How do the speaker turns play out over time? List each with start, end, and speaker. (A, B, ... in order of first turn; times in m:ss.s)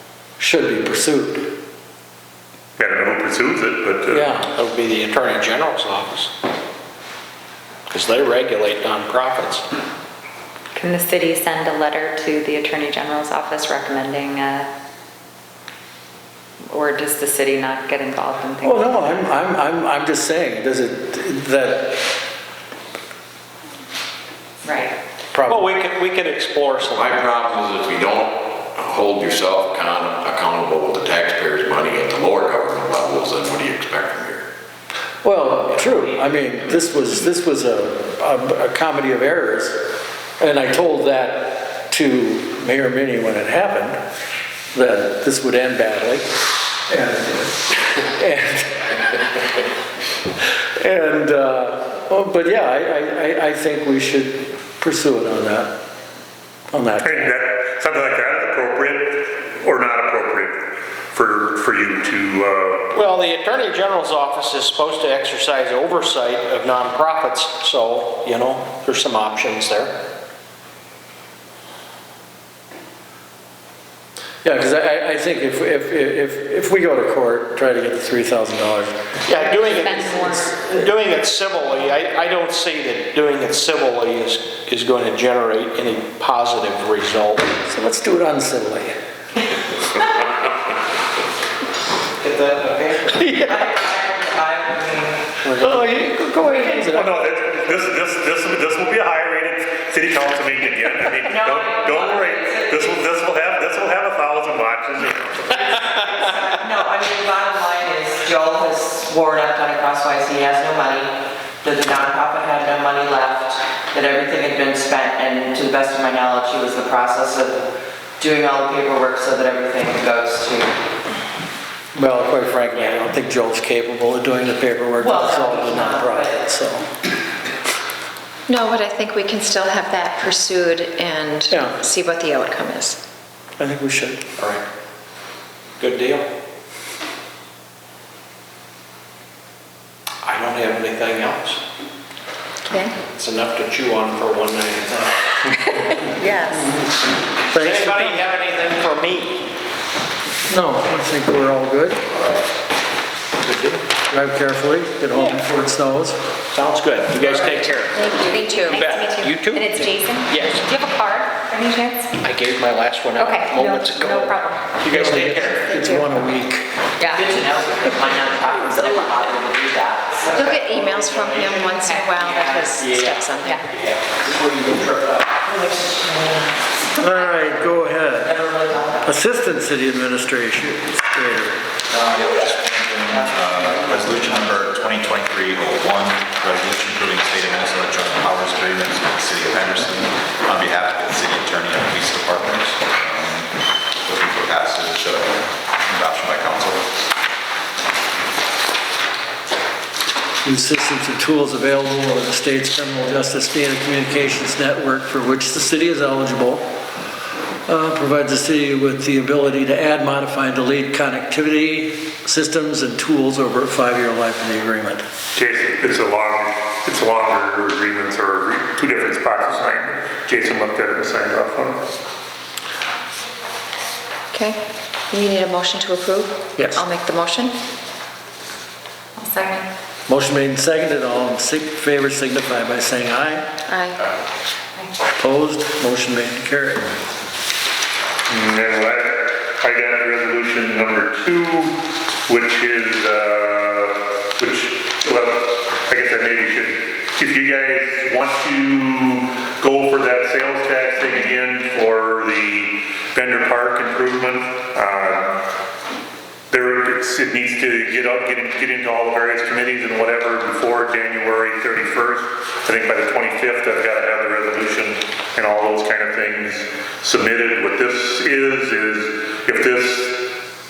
0:00.4-0:01.5 A
0:02.8-0:04.3 B
0:04.1-0:04.5 A
0:04.5-0:06.3 C
0:07.9-0:09.6 C
0:10.7-0:14.7 D
0:16.7-0:19.0 D
0:18.6-0:22.0 A
0:24.6-0:24.9 D
0:25.3-0:25.6 A
0:25.5-0:27.2 C
0:27.0-0:34.4 E
0:35.2-0:44.0 A
0:44.7-0:46.3 A
0:46.9-0:49.2 A
0:50.8-0:55.8 A
0:56.7-0:57.3 A
0:57.0-1:02.9 B
1:02.9-1:09.9 C
1:14.4-1:20.8 A
1:19.3-1:27.5 C
1:19.6-1:20.5 D
1:27.6-1:29.0 A
1:32.2-1:33.2 C
1:33.2-1:33.5 A
1:33.2-1:35.4 F
1:35.4-1:36.0 C
1:35.5-1:37.2 A
1:36.8-1:45.7 B
1:41.2-1:43.0 F
1:45.6-1:57.6 F
1:58.2-2:00.8 F
2:01.9-2:06.9 A
2:05.0-2:06.4 F
2:08.5-2:13.0 G
2:11.5-2:11.8 A
2:13.6-2:14.2 A
2:14.4-2:14.6 C
2:15.8-2:16.3 C
2:20.2-2:21.6 C
2:22.7-2:23.0 G
2:23.1-2:25.1 C
2:26.2-2:26.6 D
2:27.5-2:28.2 A
2:27.5-2:29.4 C
2:30.5-2:32.0 A
2:33.4-2:33.8 C
2:34.1-2:36.2 A
2:36.5-2:38.2 C
2:38.0-2:42.1 D
2:38.2-2:38.9 G
2:38.7-2:40.6 C
2:42.2-2:45.7 C
2:43.2-2:44.6 D
2:44.8-2:46.7 A
2:45.7-2:46.0 G
2:47.0-2:47.2 D
2:47.2-2:50.7 F
2:50.3-2:53.6 G
2:51.3-2:51.8 F
2:51.7-2:52.3 D
2:52.3-2:53.2 F
2:54.2-2:55.3 C
2:55.4-2:59.2 F
2:57.0-2:58.4 A
2:59.0-3:01.6 A
3:01.9-3:13.5 H
3:03.1-3:04.5 F
3:14.0-3:16.9 H
3:20.4-3:26.6 A
3:27.7-3:35.0 A
3:35.4-3:41.8 B
3:44.3-3:44.6 G
3:45.1-3:47.5 G
3:46.6-3:46.8 A
3:49.2-3:49.6 D
3:50.1-3:53.4 A
3:53.7-3:54.0 G
3:55.2-3:56.9 A
3:58.3-4:01.8 B
4:02.3-4:15.3 B
4:16.5-4:30.3 B